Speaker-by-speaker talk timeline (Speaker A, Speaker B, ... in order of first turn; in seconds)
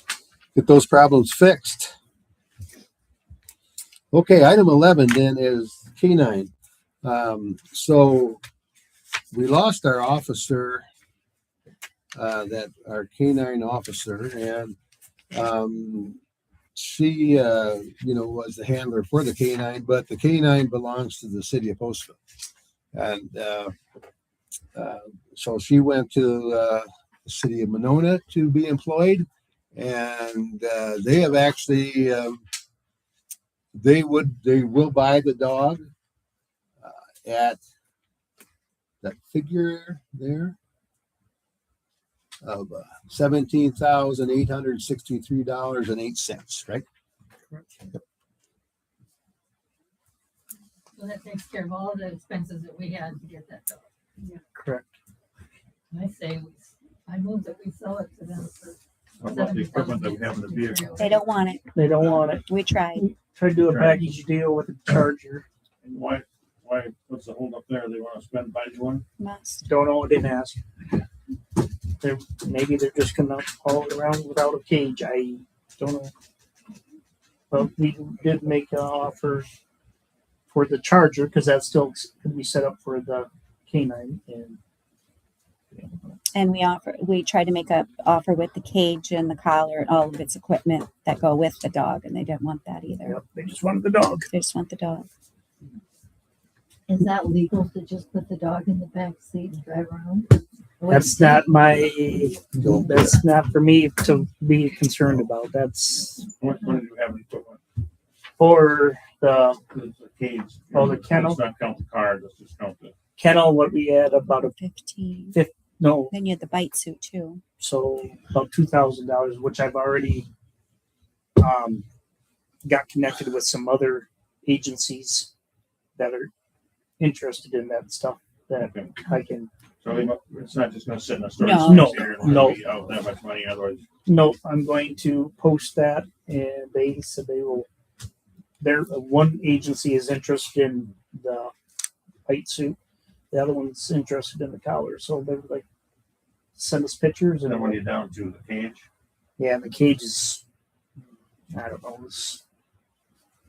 Speaker A: 0.5-1.9, 4.1-6.5, 7.0-8.4, 9.3-10.8, 12.1-14.8, 15.3-16.2, 16.7-22.2, 22.9-23.7, 24.7-32.4, 33.7-35.8, 36.8-37.6, 39.0-40.5, 42.4-46.8
Speaker B: 50.9-53.8, 55.9-61.2, 96.9-100.3
Speaker C: 54.5-54.9, 61.7-65.4, 69.6-70.6, 72.0-76.1, 77.5-79.5, 80.5-84.6, 85.7-86.2, 93.0-94.3, 100.9-106.2, 108.4-109.6, 110.7-111.4, 113.2-114.5, 115.3-116.1, 117.6-120.3, 121.4-121.8, 122.6-125.3, 126.0-126.3, 127.0-129.5, 131.6-132.6, 134.1-137.7, 138.6-141.5, 142.2-142.8, 143.3-145.6, 146.6-147.8, 149.4-150.4, 151.5-152.4
Speaker D: 59.2-61.1, 62.0-62.3, 63.6-64.0, 65.8-69.0, 106.2-107.6, 109.7-112.9, 128.6-129.0, 129.8-133.8, 147.4-148.8
Speaker E: 61.0-61.6, 62.5-63.0, 69.2-69.6, 86.3-93.2, 94.3-95.1, 114.6-115.4, 116.1-117.4, 131.4-132.1